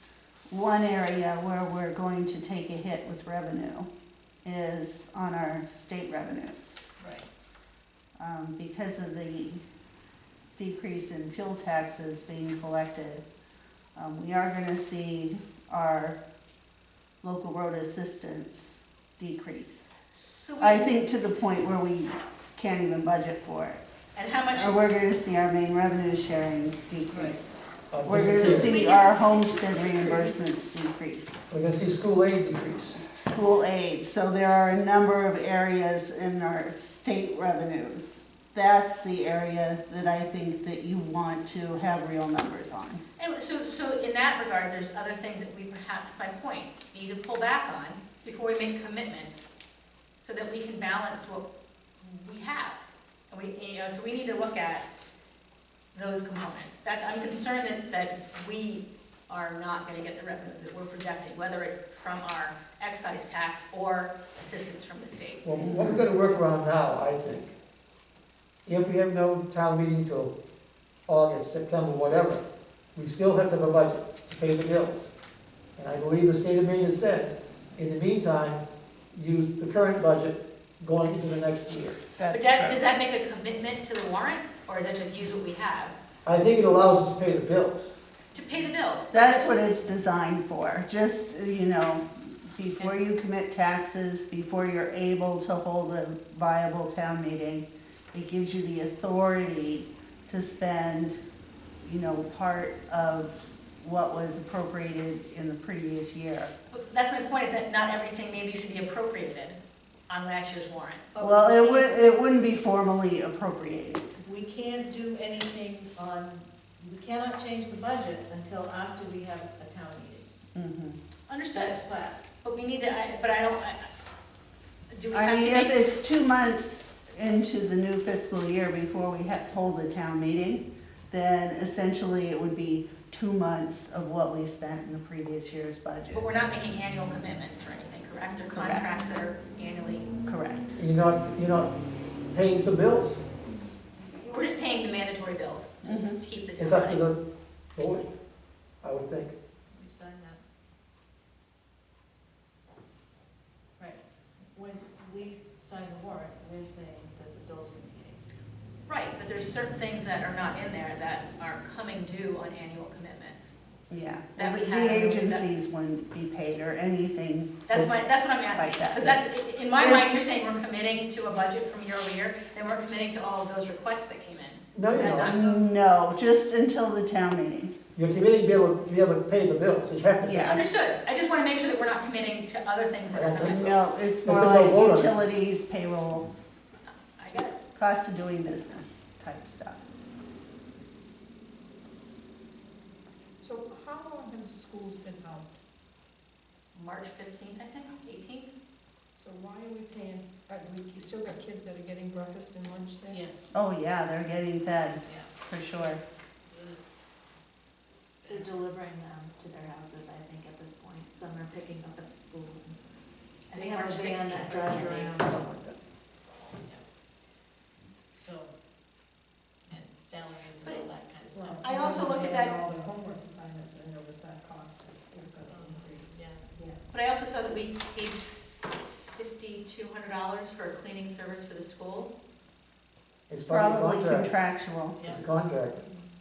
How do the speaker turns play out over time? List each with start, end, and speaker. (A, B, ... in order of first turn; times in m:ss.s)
0:00.5-0:03.9 A
0:04.4-0:06.8 A
0:07.0-0:07.3 B
0:08.2-0:09.6 A
0:10.6-0:13.2 A
0:14.0-0:16.2 A
0:17.2-0:19.9 A
0:20.1-0:21.0 C
0:20.6-0:23.8 A
0:24.2-0:24.9 C
0:24.5-0:31.4 A
0:27.9-0:28.7 D
0:28.3-0:30.5 C
0:31.5-0:33.0 D
0:33.1-0:43.0 A
0:43.2-0:49.5 C
0:50.2-0:51.5 C
0:52.0-0:54.9 C
0:55.9-1:05.5 C
1:05.4-1:07.5 D
1:05.6-1:06.0 A
1:08.7-1:10.3 D
1:11.1-1:12.4 D
1:13.0-1:15.1 D
1:15.8-1:22.0 D
1:22.2-1:22.8 A
1:22.3-1:26.0 C
1:26.2-1:27.9 D
1:28.3-1:29.6 C
1:29.1-1:41.2 A
1:41.8-1:46.5 A
1:46.7-1:51.0 C
1:51.1-1:52.0 B
1:51.2-1:54.0 A
1:54.2-2:00.3 B
2:00.6-2:01.0 A
2:01.3-2:01.8 C
2:01.5-2:02.2 B
2:02.4-2:03.9 C
2:04.9-2:06.0 C
2:05.1-2:16.3 A
2:16.1-2:20.1 C
2:18.5-2:18.8 A
2:20.3-2:20.7 A
2:20.8-2:21.8 D
2:22.3-2:23.2 D
2:24.0-2:27.0 C
2:25.8-2:26.2 A
2:26.6-2:27.2 D
2:27.8-2:28.1 D
2:28.8-2:29.4 D
2:29.7-2:30.4 B
2:33.8-2:38.2 B
2:38.9-2:43.6 C
2:43.9-2:47.9 A
2:44.4-2:45.5 C
2:47.7-2:55.6 C
2:48.5-2:49.2 A
2:49.7-2:50.1 A
2:54.7-2:55.3 D
2:55.2-2:57.8 A
2:58.0-3:00.6 D
3:00.2-3:00.6 A
3:00.4-3:03.8 C
3:03.1-3:05.1 D
3:03.5-3:06.3 A
3:06.9-3:07.6 C
3:07.8-3:09.8 A
3:13.4-3:15.6 E
3:16.7-3:18.5 C
3:19.2-3:23.2 E
3:23.1-3:23.5 B
3:23.5-3:26.0 A
3:26.5-3:26.8 B
3:28.2-3:28.5 B
3:28.3-3:32.8 F
3:33.5-3:35.2 C
3:33.5-3:35.6 F
3:35.3-3:35.8 D
3:36.4-3:37.5 B
3:38.1-3:38.7 B
3:39.7-3:41.6 B
3:41.3-3:46.8 E
3:41.6-3:42.6 C
3:45.4-3:46.8 B
3:46.9-3:52.1 C
3:53.3-3:54.4 D
3:53.5-3:55.0 A
3:55.0-3:55.3 B
3:55.0-3:55.8 D